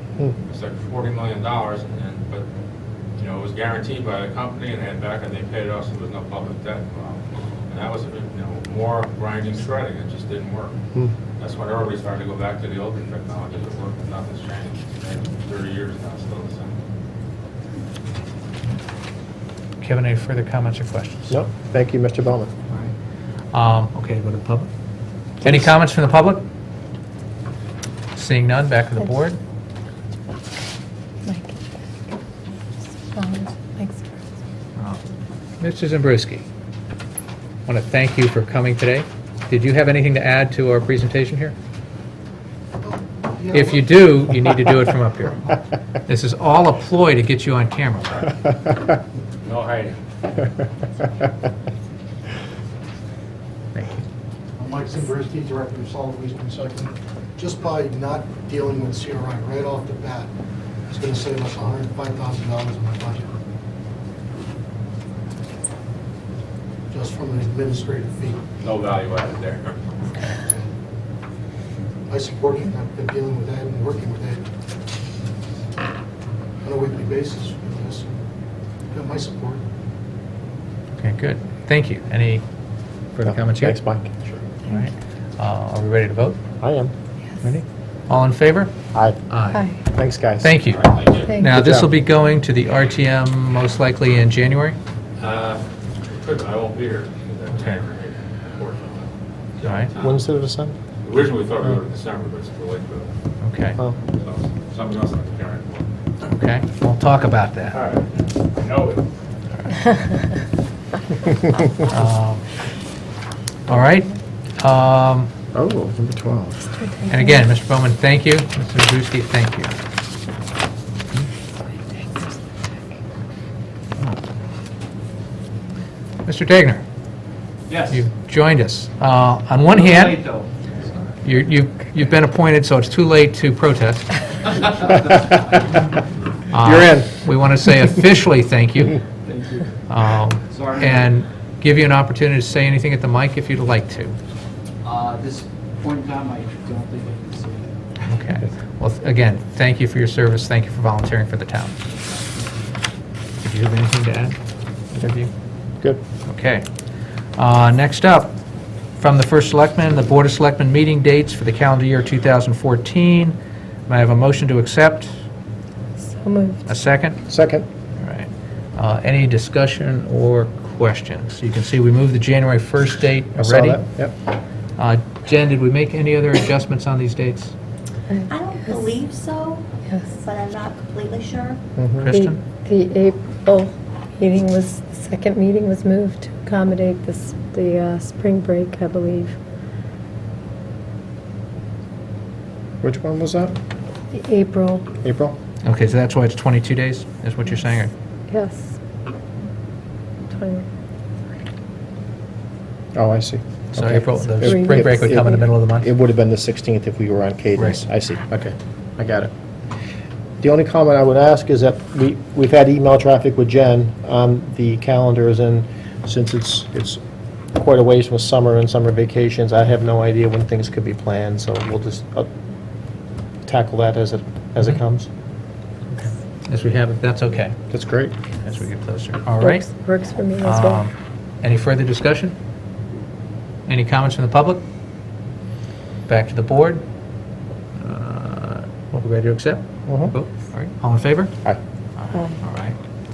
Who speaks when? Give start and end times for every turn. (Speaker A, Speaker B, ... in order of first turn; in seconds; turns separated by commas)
Speaker A: 0.5-2.5, Speaker A: 3.2-10.7, Speaker A: 11.4-16.7, Speaker B: 19.8-21.4, Speaker C: 21.3-22.5, Speaker B: 23.5-24.7, Speaker B: 25.4-26.4, Speaker C: 25.4-25.7, Speaker B: 28.1-29.4, Speaker D: 31.2-31.6, Speaker D: 33.0-34.2, Speaker B: 35.6-36.4, Speaker B: 37.7-41.5, Speaker B: 43.5-48.4, Speaker A: 49.4-50.0, Speaker B: 53.7-54.0, Speaker E: 54.6-60.3, Speaker E: 60.9-63.3, Speaker E: 66.9-68.4, Speaker A: 68.6-69.8, Speaker E: 72.1-74.4, Speaker E: 76.6-78.1, Speaker E: 78.9-79.6, Speaker B: 81.0-82.4, Speaker B: 83.1-83.8, Speaker C: 83.2-84.1, Speaker B: 84.7-86.4, Speaker C: 86.6-86.9, Speaker B: 87.4-88.7, Speaker B: 89.3-89.7, Speaker D: 89.5-89.8, Speaker C: 89.9-90.5, Speaker B: 90.4-94.8, Speaker A: 90.7-91.4, Speaker C: 91.4-92.0, Speaker A: 95.2-100.2, Speaker B: 97.5-97.8, Speaker B: 99.6-99.9, Speaker C: 100.0-100.7, Speaker A: 101.0-103.1, Speaker B: 103.4-103.8, Speaker A: 104.1-105.9, Speaker B: 106.2-107.8, Speaker A: 107.7-109.1, Speaker B: 109.5-109.8, Speaker B: 111.8-112.5, Speaker B: 113.7-115.3, Speaker C: 115.5-116.6, Speaker D: 116.8-117.5, Speaker B: 117.1-119.7, Speaker D: 121.9-122.4, Speaker B: 126.2-126.8, Speaker F: 127.7-128.0, Speaker B: 127.9-130.3, Speaker F: 129.7-130.5, Speaker B: 131.2-134.2, Speaker B: 136.5-139.0, Speaker C: 136.5-137.3, Speaker F: 139.2-139.7, Speaker B: 139.9-144.2, Speaker F: 140.5-141.1, Speaker F: 144.8-147.8, Speaker B: 148.1-151.8, Speaker F: 151.9-152.5, Speaker B: 153.4-154.4, Speaker B: 154.9-155.3, Speaker B: 156.3-156.7, Speaker B: 157.4-158.3, Speaker B: 159.0-163.3, Speaker B: 163.9-165.1, Speaker D: 166.0-166.7, Speaker B: 166.7-167.2, Speaker C: 167.3-167.7, Speaker B: 168.0-173.8, Speaker C: 173.4-174.1, Speaker B: 174.8-177.5, Speaker D: 178.1-178.8, Speaker G: 178.3-181.6, Speaker D: 179.9-180.1, Speaker C: 181.8-182.1, Speaker B: 182.0-182.4, Speaker D: 182.1-189.3, Speaker C: 192.8-193.6, Speaker D: 194.1-194.9, Speaker C: 195.0-195.3, Speaker B: 195.6-197.9, Speaker D: 198.3-198.7, Speaker D: 200.3-200.7, Speaker C: 202.9-209.3, Speaker B: 203.7-205.9, Speaker D: 204.3-205.4, Speaker B: 207.6-207.8, Speaker C: 210.4-217.0, Speaker C: 217.5-222.3, Speaker C: 223.4-225.1, Speaker B: 225.9-227.6, Speaker C: 227.7-228.2, Speaker B: 228.4-229.7, Speaker D: 229.4-230.8, Speaker B: 230.4-232.3, Speaker B: 233.7-234.6, Speaker B: 236.1-236.8, Speaker B: 237.8-241.4, Speaker C: 239.9-240.1, Speaker B: 241.9-242.8, Speaker D: 242.1-242.3